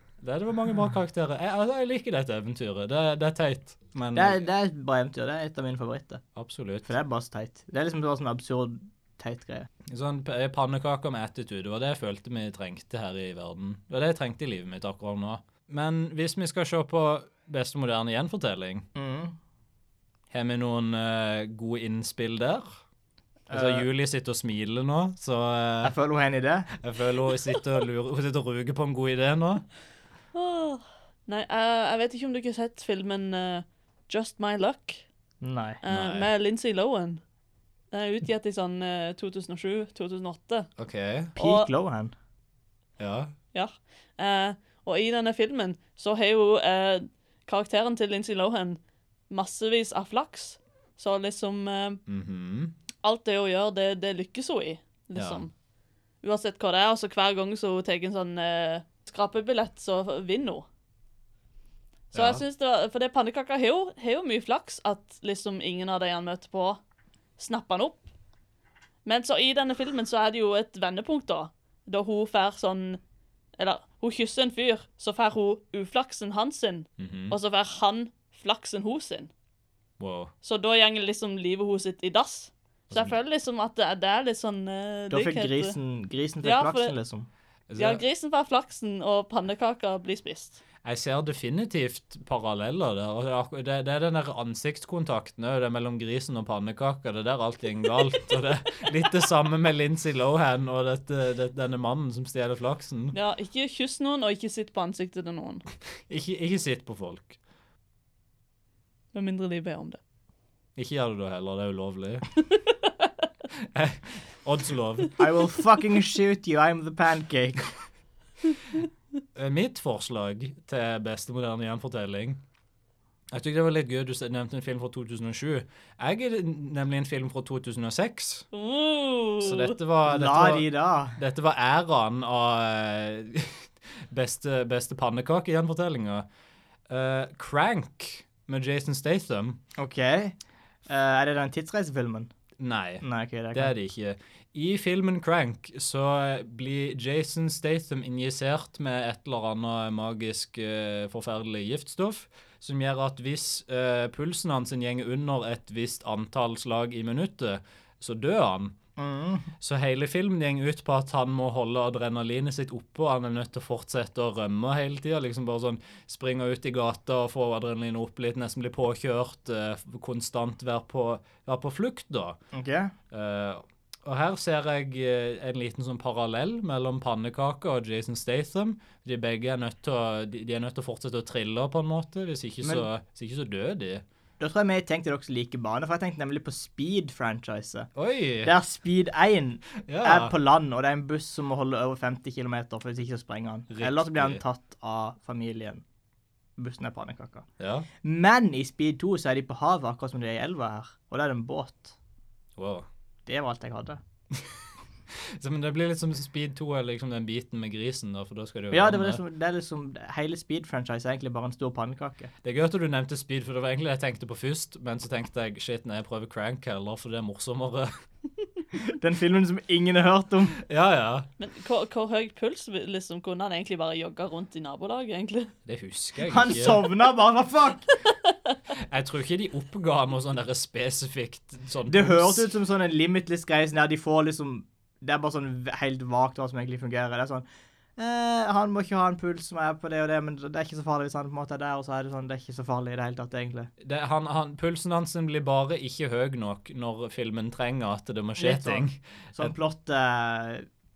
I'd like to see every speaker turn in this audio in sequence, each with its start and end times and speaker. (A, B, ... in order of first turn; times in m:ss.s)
0:00.2-0:04.4 A
0:04.1-0:06.2 B
0:06.3-0:06.9 A
0:06.8-0:09.7 B
0:09.8-0:18.9 A
0:18.9-0:19.4 B
0:20.3-0:22.7 A
0:23.5-0:23.9 B
0:23.5-0:25.9 A
0:25.8-0:26.7 B
0:26.7-0:29.6 A
0:30.3-0:35.0 C
0:35.4-0:35.8 B
0:35.8-0:37.2 C
0:35.9-0:36.3 A
0:37.9-0:40.7 C
0:40.8-0:41.4 A
0:41.4-0:41.7 C
0:41.4-0:42.1 B
0:43.0-0:43.3 A
0:43.5-0:48.8 C
0:49.3-0:52.0 C
0:52.1-0:52.7 A
0:53.0-0:55.5 C
0:55.1-0:55.4 A
0:56.2-1:00.6 C
1:02.1-1:06.8 C
1:02.1-1:02.4 A
1:07.4-1:08.0 C
1:09.0-1:13.0 C
1:13.6-1:19.3 C
1:17.0-1:17.4 A
1:20.0-1:20.3 A
1:20.4-1:25.8 C
1:22.9-1:23.2 A
1:25.1-1:27.3 B
1:26.4-1:26.9 C
1:27.7-1:28.0 A
1:27.8-1:30.6 C
1:30.8-1:43.2 A
1:43.1-1:45.6 C
1:46.1-1:47.4 A
1:49.1-1:50.0 C
1:50.8-1:52.3 A
1:52.7-1:53.1 C
1:53.6-1:55.2 A
1:55.2-1:57.8 B
1:59.3-2:02.4 A
2:03.3-2:08.4 A
2:08.5-2:09.7 C
2:09.4-2:16.2 A
2:10.0-2:11.2 B
2:16.9-2:19.6 A
2:19.8-2:22.3 B
2:22.6-2:38.8 A
2:23.0-2:23.7 B
2:39.0-2:39.5 B
2:39.6-2:52.4 A
2:52.5-2:52.9 B
2:53.1-3:04.0 A
3:02.6-3:02.9 B
3:04.4-3:07.9 B
3:08.0-3:08.5 A
3:08.4-3:15.8 B
3:09.8-3:10.3 A
3:13.7-3:14.4 A
3:16.6-3:17.4 B
3:17.6-3:17.9 A
3:18.0-3:22.0 B
3:22.6-3:22.9 A
3:23.2-3:24.0 B
3:25.1-3:29.2 A
3:28.7-3:32.3 B
3:32.4-3:37.9 A
3:38.7-3:40.6 B
3:40.6-3:41.3 A
3:41.4-3:45.5 C
3:45.6-3:46.8 A
3:46.2-3:47.9 B
3:48.7-3:52.4 A
3:51.9-3:57.4 B
3:58.0-4:03.7 B
4:03.8-4:09.5 A
4:08.4-4:10.7 B